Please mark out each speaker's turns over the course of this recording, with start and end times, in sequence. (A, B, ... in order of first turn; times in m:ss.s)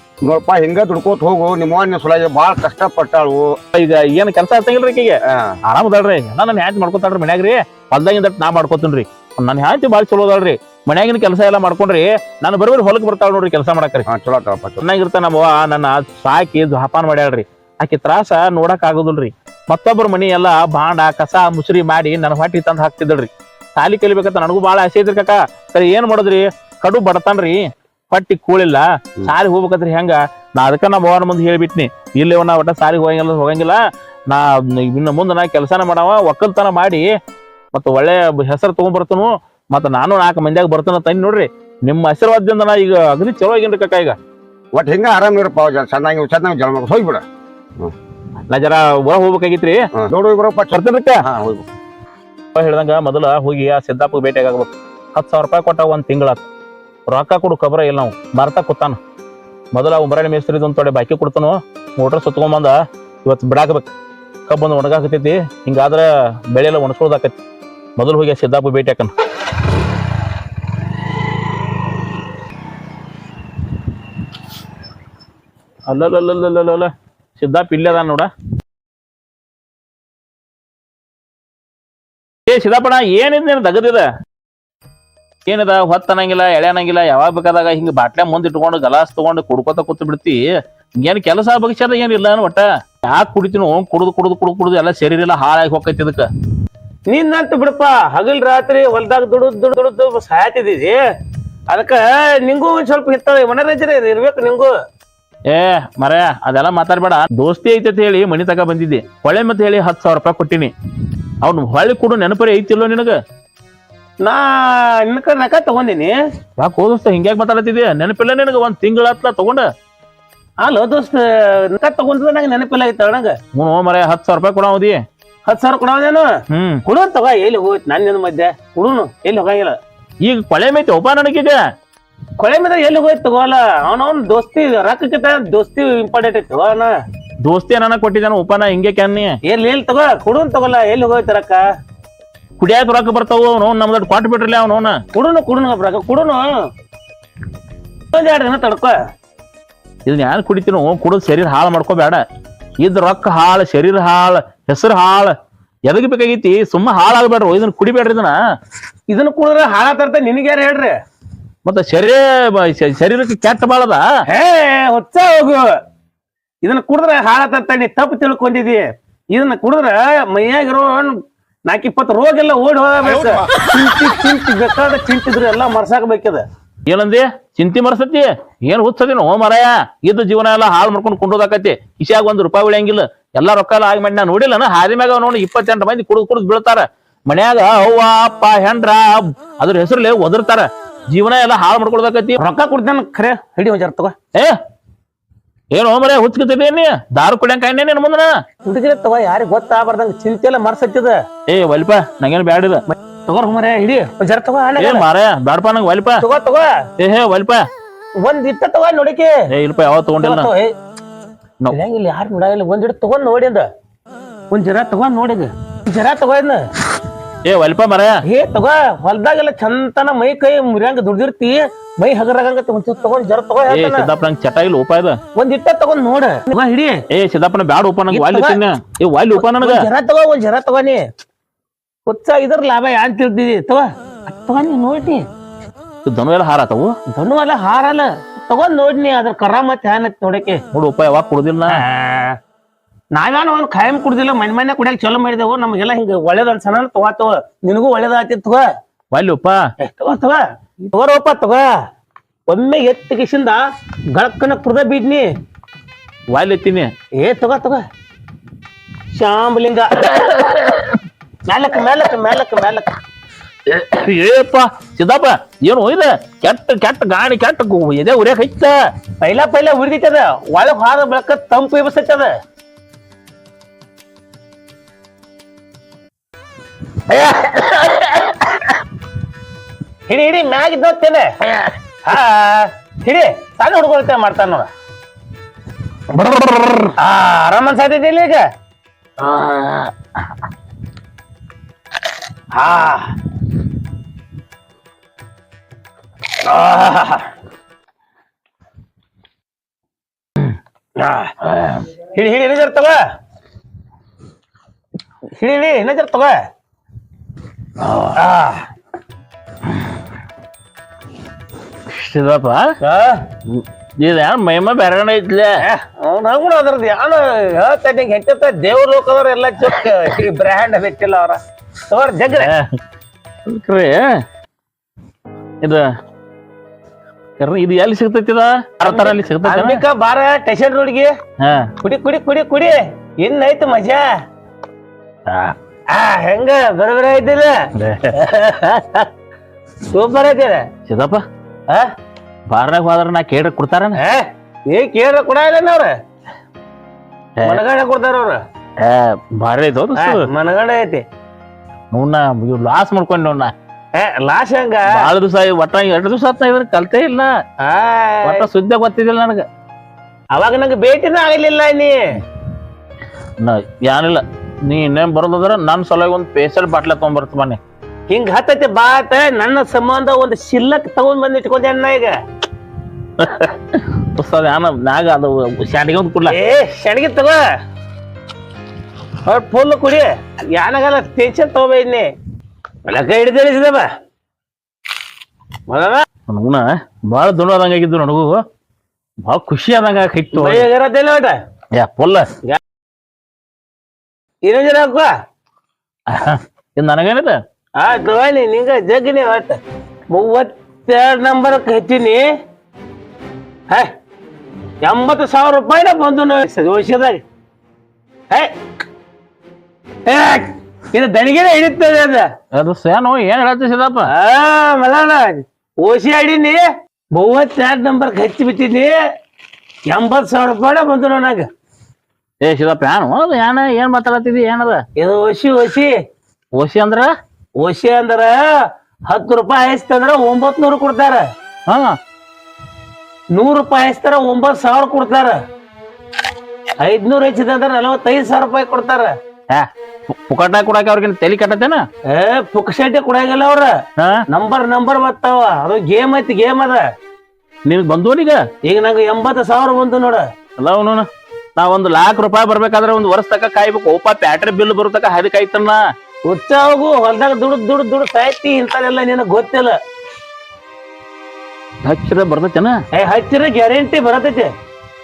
0:00.2-0:03.5 A
0:03.7-0:14.0 B
0:14.0-0:14.8 A
0:14.8-0:33.8 B
0:34.3-0:37.1 B
0:37.7-0:44.2 B
0:44.7-0:47.2 A
0:48.5-0:49.8 B
0:50.0-0:51.6 A
0:50.7-0:51.2 B
0:52.5-0:56.4 B
0:57.1-0:59.0 B
0:59.7-1:03.9 B
1:04.5-1:07.3 B
1:08.0-1:09.1 B
1:15.9-1:18.3 B
1:22.5-1:24.1 B
1:25.5-1:30.4 B
1:31.0-1:36.2 B
1:37.1-1:41.0 C
1:41.7-1:44.7 C
1:45.5-1:50.7 B
1:51.4-1:53.1 B
1:54.2-1:56.1 C
1:56.6-1:59.7 B
2:00.6-2:03.4 C
2:03.5-2:05.0 B
2:05.5-2:06.3 C
2:06.5-2:06.8 B
2:06.9-2:09.8 C
2:10.2-2:11.6 B
2:12.4-2:16.9 C
2:17.4-2:19.3 B
2:19.5-2:21.6 C
2:22.6-2:25.0 B
2:25.1-2:26.6 C
2:28.1-2:28.9 C
2:30.0-2:32.2 B
2:32.8-2:35.3 B
2:35.8-2:38.3 B
2:39.1-2:41.0 C
2:41.6-2:44.0 B
2:44.3-2:45.7 C
2:46.6-2:56.4 C
2:56.9-3:12.4 B
3:12.4-3:14.2 C
3:15.7-3:18.3 B
3:18.6-3:21.2 C
3:21.5-3:22.8 B
3:22.9-3:25.0 C
3:24.8-3:26.2 B
3:26.2-3:26.7 C
3:27.0-3:27.7 B
3:28.2-3:29.4 C
3:29.5-3:30.5 B
3:30.2-3:30.7 C
3:31.7-3:33.7 C
3:34.5-3:36.7 C
3:37.4-3:38.2 B
3:38.2-3:44.1 C
3:43.7-3:45.2 B
3:45.4-3:47.0 C
3:47.1-3:49.8 B
3:48.1-3:48.6 C
3:49.3-3:51.0 C
3:52.0-3:55.2 C
3:56.0-3:56.9 B
3:57.1-4:00.6 C
4:00.7-4:01.8 B
4:01.7-4:02.4 C
4:03.1-4:08.6 C
4:09.1-4:09.6 B
4:09.8-4:11.6 C
4:12.5-4:13.6 C
4:14.2-4:15.3 C
4:16.3-4:16.9 B
4:17.2-4:17.8 C
4:19.1-4:20.2 C
4:20.2-4:21.0 B
4:21.4-4:22.9 C
4:23.7-4:28.7 B
4:29.2-4:32.3 C
4:37.1-4:38.1 C
4:40.1-4:41.3 C
4:42.0-4:44.7 C
4:46.2-4:46.9 B
4:47.0-4:48.4 C
4:49.2-4:49.9 B
4:52.5-4:53.1 C
4:56.4-4:57.3 C
5:01.0-5:03.0 C
5:05.3-5:06.4 C
5:08.1-5:08.7 C
5:11.9-5:12.7 B
5:12.8-5:13.2 C
5:13.5-5:15.6 B
5:15.6-5:22.5 C
5:22.4-5:22.8 B
5:23.4-5:24.2 B
5:27.4-5:29.8 B
5:28.8-5:31.1 C
5:31.4-5:31.7 B
5:31.8-5:34.1 C
5:35.3-5:35.5 B
5:35.9-5:37.6 C
5:37.8-5:38.1 B
5:38.1-5:39.1 C
5:39.9-5:40.7 C
5:40.9-5:41.2 B
5:42.5-5:44.0 B
5:44.0-5:46.0 C
5:47.4-5:48.4 C
5:48.8-5:50.3 B
5:50.0-5:51.0 C
5:51.9-5:53.5 B
5:54.0-5:55.1 C
5:54.9-5:57.3 B
5:57.6-5:58.4 C
5:58.2-5:59.4 B
6:00.3-6:02.0 C
6:03.4-6:07.6 B
6:08.1-6:12.2 C
6:13.2-6:16.3 B
6:16.3-6:17.4 C
6:19.2-6:22.1 C
6:22.9-6:23.9 C
6:25.7-6:26.0 C
6:26.3-6:28.4 B
6:29.2-6:30.7 B
6:30.3-6:31.4 C
6:31.7-6:32.3 B
6:34.4-6:35.1 C
6:36.1-6:37.4 B
6:37.8-6:39.6 C
6:40.1-6:42.2 C
6:44.8-6:47.2 C
6:50.0-6:52.3 C
6:52.5-6:54.1 B
6:54.1-6:56.6 C
6:57.1-6:58.9 C
6:59.9-7:01.5 C
7:02.4-7:04.8 B
7:05.0-7:05.9 C
7:06.6-7:07.1 B
7:07.6-7:08.3 C
7:09.1-7:11.2 C
7:13.3-7:15.4 C
7:16.8-7:19.1 C
7:19.5-7:21.8 B
7:22.1-7:23.7 C
7:24.3-7:26.8 C
7:27.6-7:28.4 B
7:28.6-7:30.3 C
7:30.6-7:31.0 B
7:31.6-7:35.8 B
7:36.2-7:39.8 C
7:41.8-7:42.8 B
7:43.0-7:44.5 C